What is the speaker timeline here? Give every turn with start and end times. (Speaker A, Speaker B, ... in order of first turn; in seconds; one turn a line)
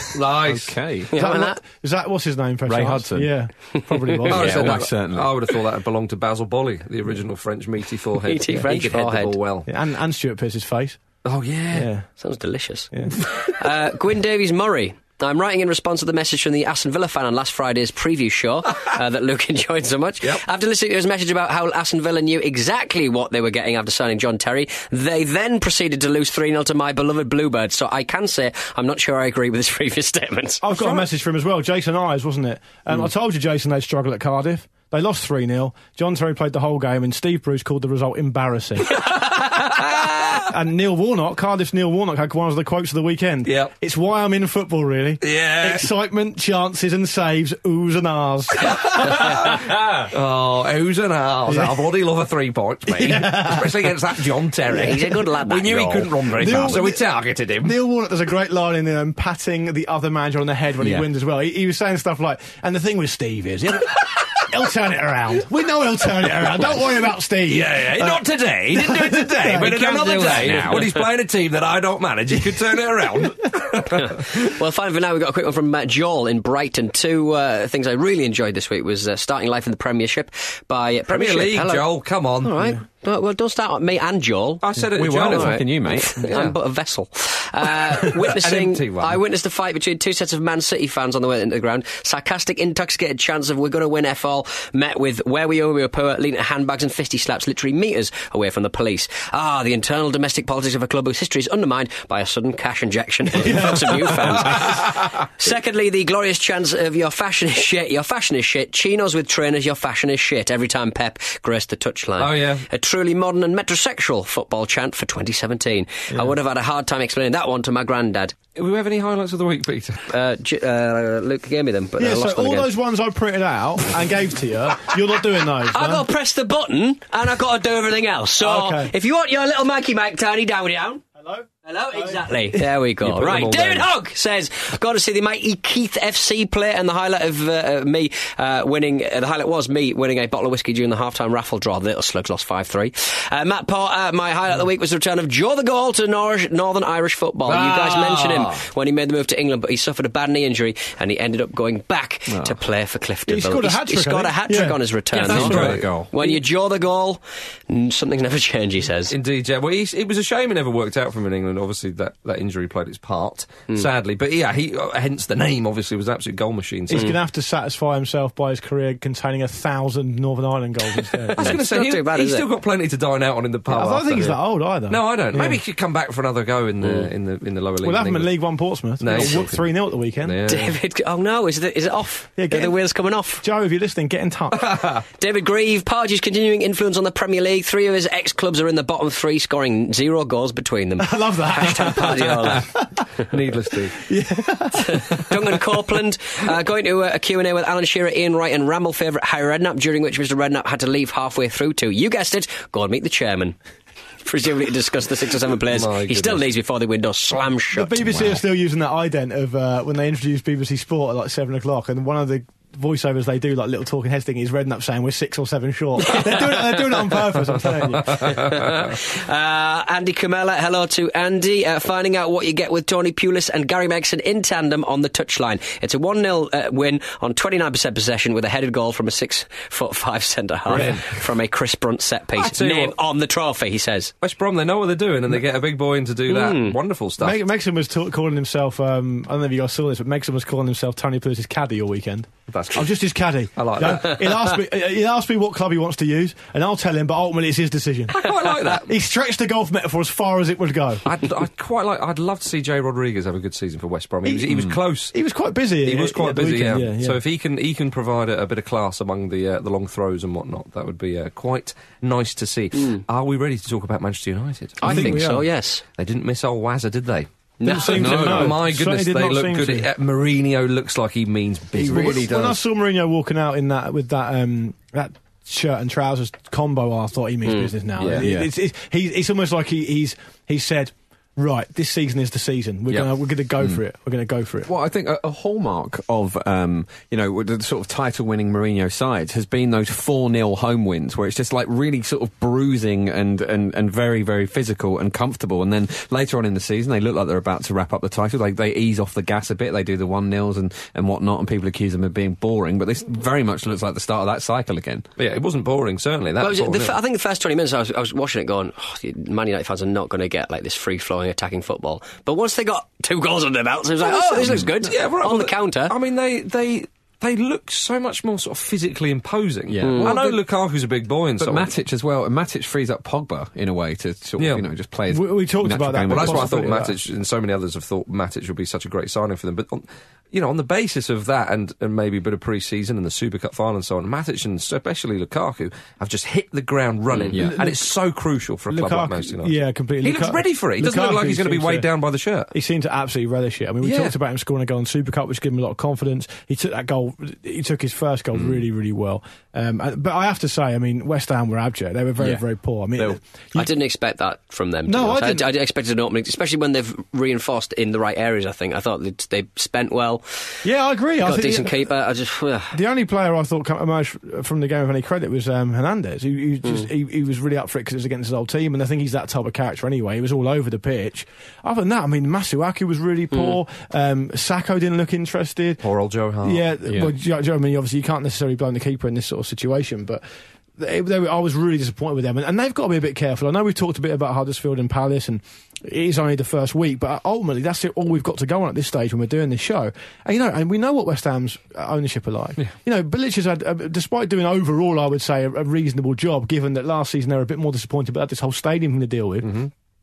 Speaker A: 0.1-0.8
Speaker B: 0.4-1.1
Speaker C: 1.1-1.6
Speaker D: 1.1-4.8
Speaker B: 2.6-3.3
Speaker B: 4.3-5.3
Speaker A: 4.3-9.7
Speaker C: 8.2-9.4
Speaker D: 9.7-11.0
Speaker A: 11.2-11.9
Speaker D: 11.7-12.1
Speaker C: 12.2-30.6
Speaker D: 12.9-13.5
Speaker D: 30.6-39.2
Speaker A: 30.7-31.1
Speaker D: 40.4-49.6
Speaker A: 43.4-43.7
Speaker A: 45.2-45.9
Speaker A: 48.7-57.7
Speaker D: 51.5-51.8
Speaker D: 52.9-53.9
Speaker C: 54.7-56.7
Speaker D: 56.2-57.0
Speaker D: 57.6-70.7
Speaker B: 60.8-61.1
Speaker A: 67.5-74.3
Speaker B: 69.5-71.1
Speaker C: 73.9-81.9
Speaker A: 81.1-82.8
Speaker C: 82.4-84.6
Speaker A: 84.6-86.6
Speaker B: 84.8-86.3
Speaker C: 85.2-118.3
Speaker A: 88.0-89.2
Speaker D: 103.3-104.6
Speaker A: 104.5-105.0
Speaker A: 112.2-112.7
Speaker A: 118.5-120.0
Speaker C: 120.1-122.7
Speaker D: 122.0-126.1
Speaker C: 125.6-131.0
Speaker D: 128.4-128.9
Speaker D: 131.2-132.6
Speaker C: 131.6-159.1
Speaker A: 133.0-133.9
Speaker A: 147.5-148.5
Speaker B: 152.3-152.6
Speaker D: 153.3-155.7
Speaker A: 155.2-155.9
Speaker B: 155.3-156.1
Speaker A: 159.1-167.1
Speaker D: 166.9-171.5
Speaker C: 171.3-172.4
Speaker A: 171.3-178.4
Speaker D: 173.7-175.6
Speaker C: 176.8-177.1
Speaker D: 177.8-180.4
Speaker A: 179.0-180.8
Speaker C: 180.4-183.4
Speaker D: 182.3-182.7
Speaker D: 183.4-184.9
Speaker A: 184.7-184.9
Speaker C: 185.2-192.6
Speaker D: 191.0-193.1
Speaker A: 192.3-192.6
Speaker A: 193.2-194.0
Speaker D: 194.0-195.6
Speaker C: 194.8-203.6
Speaker C: 204.2-208.4
Speaker A: 205.7-206.4
Speaker D: 207.7-218.7
Speaker C: 216.0-216.8
Speaker C: 218.2-234.1
Speaker D: 230.7-231.0
Speaker A: 230.8-231.0
Speaker A: 232.4-232.9
Speaker A: 234.2-237.4
Speaker C: 236.3-236.8
Speaker D: 237.2-251.0
Speaker A: 242.5-243.0
Speaker A: 243.5-244.4
Speaker A: 248.1-248.9
Speaker A: 251.0-255.1
Speaker D: 254.2-257.2
Speaker B: 254.5-254.8
Speaker A: 255.8-265.2
Speaker C: 262.7-263.0
Speaker D: 264.8-265.5
Speaker C: 264.8-265.8
Speaker A: 266.0-272.3
Speaker C: 267.6-268.3
Speaker D: 267.6-269.9
Speaker B: 267.9-268.6
Speaker B: 271.8-272.6
Speaker D: 271.8-284.7
Speaker C: 277.4-277.8
Speaker A: 278.0-278.3
Speaker B: 278.1-278.5
Speaker B: 284.6-305.1
Speaker A: 305.2-307.0
Speaker C: 306.4-315.9
Speaker A: 314.2-321.7
Speaker B: 319.7-320.2
Speaker C: 319.8-320.1
Speaker B: 321.4-326.7
Speaker A: 324.4-324.6
Speaker D: 325.1-326.9
Speaker A: 326.1-342.5
Speaker B: 337.3-337.6
Speaker D: 337.3-337.9
Speaker D: 338.7-341.9
Speaker D: 342.5-353.7
Speaker A: 343.8-344.1
Speaker B: 352.2-352.4
Speaker C: 353.5-360.6
Speaker D: 354.9-355.5
Speaker D: 360.6-361.9
Speaker C: 361.2-362.8
Speaker D: 362.7-375.8
Speaker C: 373.3-373.6
Speaker A: 375.8-376.7
Speaker D: 376.4-380.2
Speaker B: 376.8-377.1
Speaker D: 380.8-399.6
Speaker A: 399.4-399.7